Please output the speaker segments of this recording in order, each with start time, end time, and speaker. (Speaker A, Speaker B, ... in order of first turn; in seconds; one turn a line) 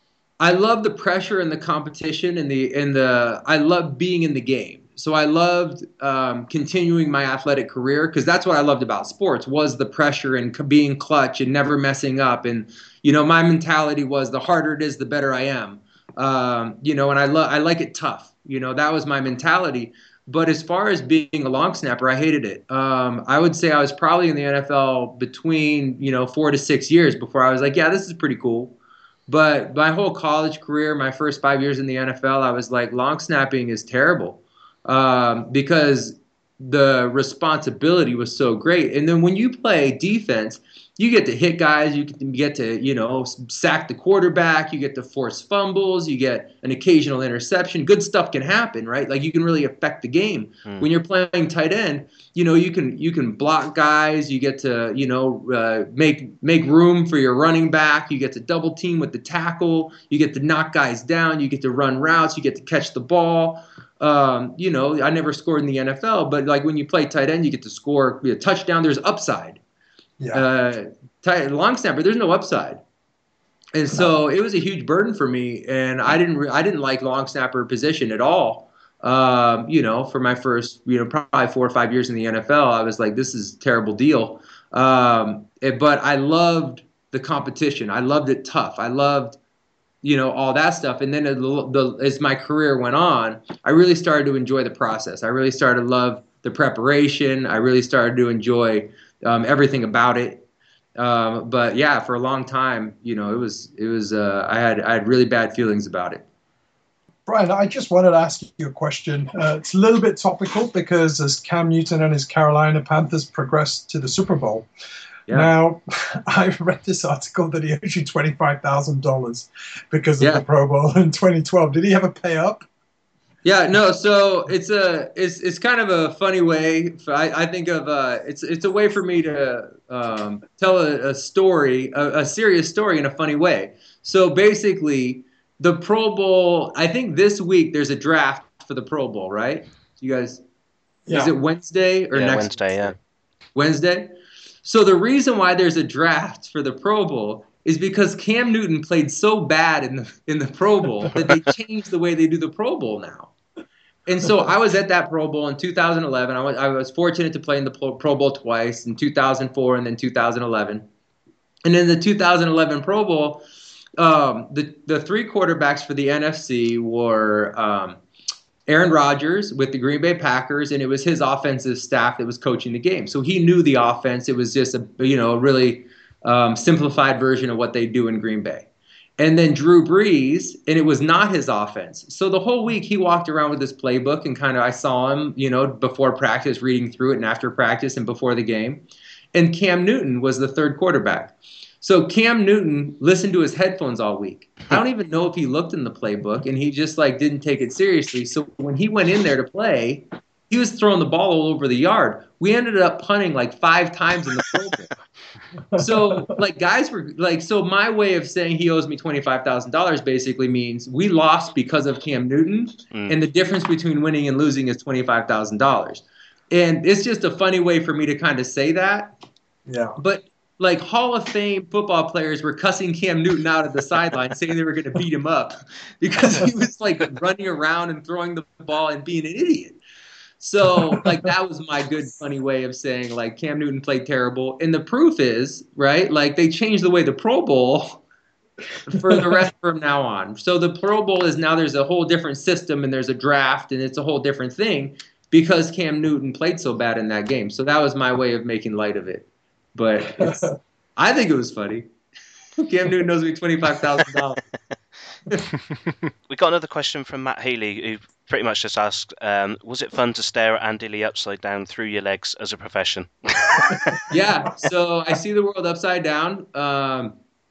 Speaker A: 0.4-28.7
Speaker A: 29.3-69.6
Speaker B: 70.2-70.4
Speaker A: 70.3-72.8
Speaker A: 73.7-89.4
Speaker A: 90.0-100.4
Speaker A: 101.0-106.2
Speaker B: 107.2-114.7
Speaker B: 115.3-122.7
Speaker A: 123.4-140.4
Speaker B: 141.1-141.3
Speaker A: 141.1-143.0
Speaker C: 142.1-142.9
Speaker A: 143.5-144.1
Speaker A: 144.6-153.3
Speaker A: 154.1-160.8
Speaker A: 161.7-163.4
Speaker A: 164.0-168.0
Speaker A: 168.7-178.7
Speaker A: 179.2-204.9
Speaker B: 205.7-206.2
Speaker A: 205.7-219.1
Speaker B: 219.7-220.0
Speaker A: 220.0-229.8
Speaker A: 230.4-238.0
Speaker A: 238.8-251.9
Speaker B: 250.2-250.4
Speaker A: 252.6-254.4
Speaker C: 256.3-264.1
Speaker B: 263.7-264.0
Speaker A: 264.1-267.1